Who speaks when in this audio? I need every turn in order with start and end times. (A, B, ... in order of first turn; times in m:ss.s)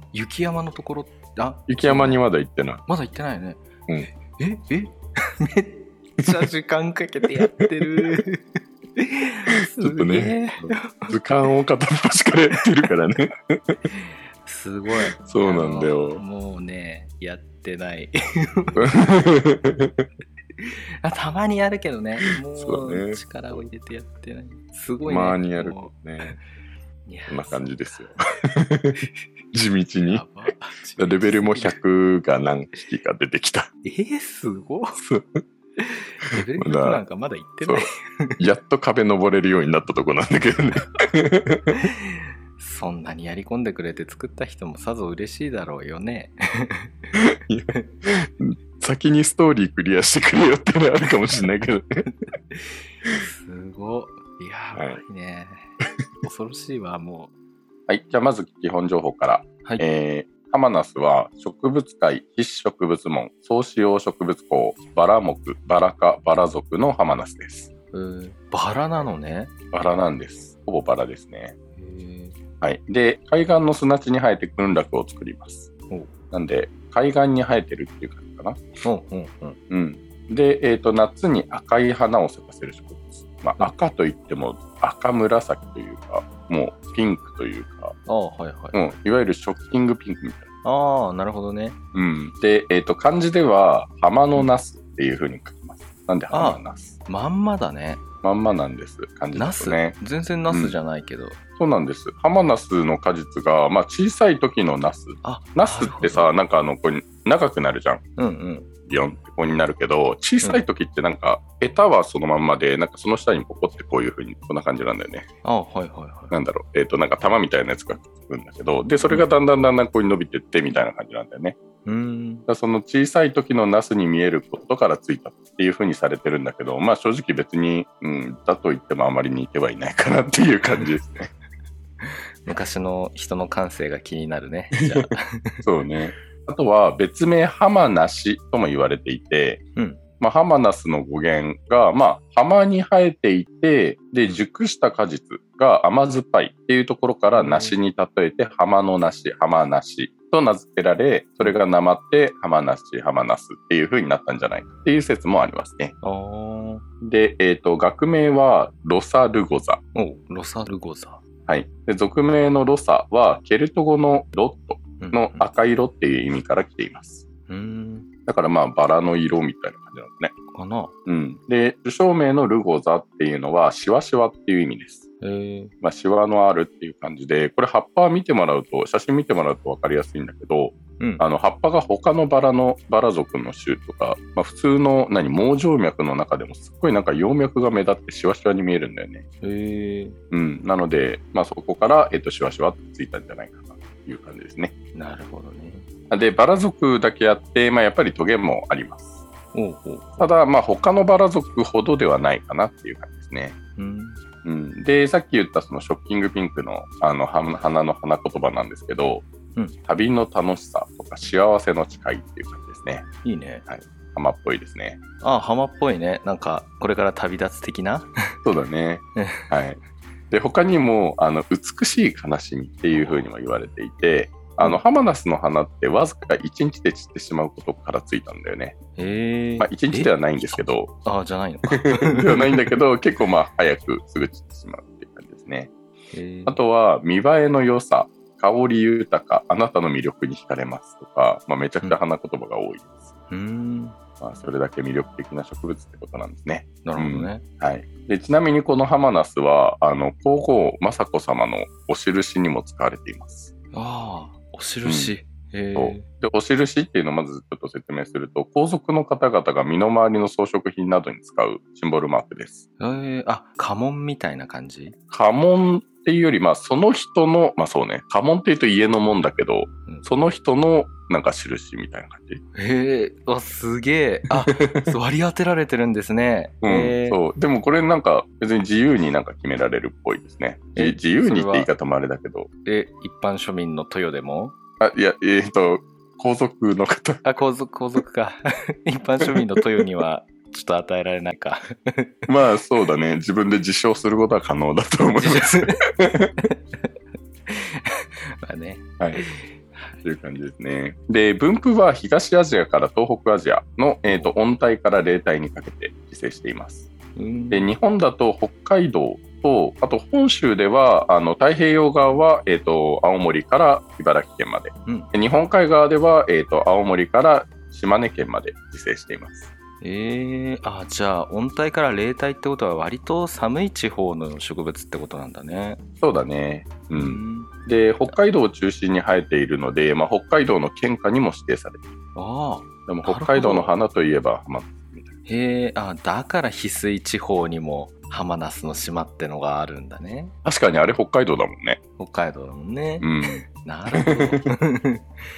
0:00.1-0:02.2 A
0:01.7-0:02.8 B
0:02.9-0:11.2 A
0:07.5-0:08.2 B
0:09.5-0:13.8 B
0:13.9-0:19.1 A
0:15.2-0:16.2 B
0:18.8-0:20.0 B
0:20.6-0:26.4 A
0:22.2-0:23.2 B
0:25.0-0:26.4 B
0:27.0-0:28.1 A
0:27.3-0:29.0 B
0:29.5-0:30.2 B
0:30.0-0:31.8 A
0:31.0-0:33.7 B
0:33.8-0:35.0 A
0:35.0-0:35.4 B
0:35.8-0:38.4 A
0:36.3-0:37.0 B
0:38.4-0:41.7 B
0:41.8-0:46.9 A
0:47.1-0:52.0 B
0:52.5-0:55.7 A
0:54.7-0:55.0 B
0:56.2-0:57.3 A
0:57.9-1:07.7 B
1:07.9-1:09.5 A
1:09.7-1:11.5 B
1:11.8-1:12.4 A
1:12.6-1:15.7 B
1:16.3-1:18.6 B
1:18.8-1:19.6 A
1:19.7-1:27.9 B
1:28.1-1:28.8 A
1:28.7-1:30.5 B
1:30.6-1:31.8 A
1:31.9-1:37.0 B
1:36.3-1:38.0 A
1:38.2-1:40.0 B
1:39.3-1:41.4 A
1:40.5-1:40.8 B
1:41.6-1:48.0 B
1:45.2-1:46.3 A
1:48.2-1:48.7 A
1:48.9-1:55.3 B
1:55.4-1:56.3 A
1:56.3-2:01.6 B
2:01.8-2:02.4 A
2:02.5-2:11.3 B
2:12.0-2:15.6 A
2:14.8-2:15.1 B
2:15.6-2:19.6 B
2:19.8-2:20.0 A
2:20.2-2:35.9 B
2:27.3-2:27.8 A
2:36.0-2:36.8 A
2:37.0-2:39.8 B
2:39.9-2:41.2 A
2:41.4-2:47.2 B
2:45.0-2:45.5 A
2:47.5-2:48.1 A
2:48.2-2:50.3 B
2:50.5-2:50.9 A
2:51.0-2:55.0 B
2:55.2-2:55.7 A
2:55.8-3:09.2 B
3:01.0-3:01.2 A
3:09.4-3:10.2 A
3:10.3-3:14.7 B
3:14.9-3:15.8 A
3:16.1-3:19.2 B
3:19.5-3:20.3 A
3:20.2-3:23.6 B
3:23.8-3:24.2 A
3:24.4-3:29.2 B
3:29.9-3:33.0 B
3:33.2-3:33.6 A
3:33.7-3:35.0 B
3:35.2-3:38.1 A
3:38.4-3:39.8 B
3:39.2-3:39.5 A
3:40.3-3:48.8 B
3:42.9-3:43.3 A
3:49.0-3:52.7 A
3:49.6-3:50.9 B
3:51.7-3:55.7 B
3:56.1-3:56.6 A
3:56.4-4:03.1 B
4:03.3-4:04.0 A
4:04.2-4:13.5 B
4:06.8-4:07.4 A
4:13.7-4:16.0 A
4:14.8-4:15.2 B
4:15.7-4:22.6 B
4:22.8-4:25.0 A
4:25.1-4:32.4 B
4:32.6-4:37.2 A
4:34.4-4:34.9 B
4:36.6-4:42.5 B
4:40.8-4:41.7 A
4:42.6-4:44.5 A
4:44.8-4:47.2 B
4:47.2-4:52.2 A
4:52.3-4:56.3 B
4:55.1-4:55.8 A
4:56.4-4:56.9 A
4:57.5-5:00.0 A
5:00.0-5:06.9 B
5:07.2-5:07.7 A
5:07.5-5:19.5 B
5:19.8-5:25.8 A
5:26.0-5:31.9 B
5:26.9-5:27.5 A
5:32.1-5:33.7 A
5:32.9-5:35.1 B
5:35.3-5:40.3 A
5:40.4-5:41.8 B
5:42.0-5:45.0 A
5:43.0-5:44.4 B